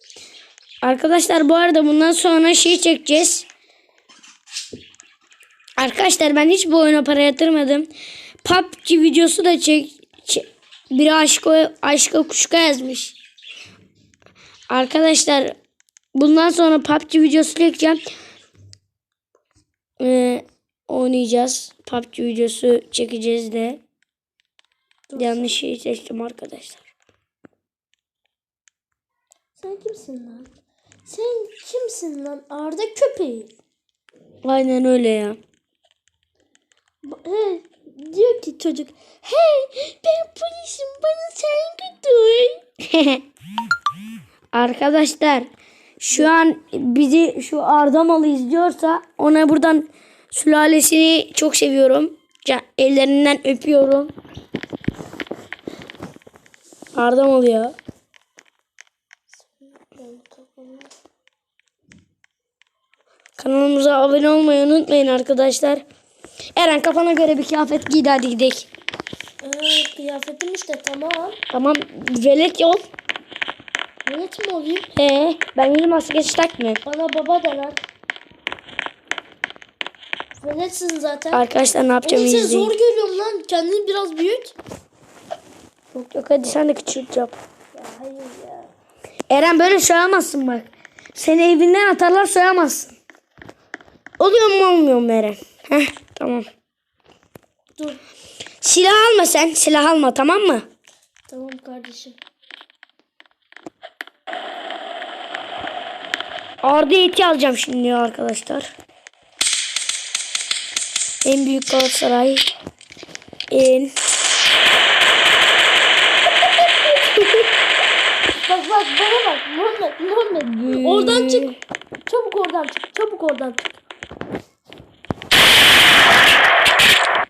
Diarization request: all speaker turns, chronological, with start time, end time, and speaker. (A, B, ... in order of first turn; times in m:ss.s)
0:00.8-0:03.4 A
0:05.8-0:07.9 A
0:08.4-0:13.1 A
0:14.7-0:15.5 A
0:16.2-0:18.0 A
0:20.0-0:23.8 A
0:25.1-0:25.5 B
0:25.2-0:26.8 A
0:29.6-0:30.5 B
0:31.0-0:33.5 B
0:34.4-0:35.4 A
0:37.0-0:42.6 B
0:42.8-0:43.2 A
0:44.5-0:45.5 A
0:46.0-0:54.1 A
0:56.9-0:57.7 A
0:59.4-1:00.9 B
1:03.4-1:05.8 A
1:06.5-1:08.7 A
1:09.4-1:11.4 B
1:11.5-1:12.8 A
1:14.0-1:14.9 B
1:14.9-1:16.8 A
1:16.8-1:17.8 B
1:20.4-1:21.4 B
1:21.3-1:22.7 A
1:22.0-1:24.6 B
1:25.9-1:27.3 A
1:27.7-1:28.7 B
1:29.3-1:32.9 A
1:34.2-1:36.4 A
1:38.6-1:40.6 A
1:41.3-1:42.2 B
1:46.6-1:48.7 A
1:51.2-1:52.4 A
1:53.5-1:53.9 A
1:58.4-2:01.5 B
2:00.5-2:01.5 A
2:02.1-2:03.7 B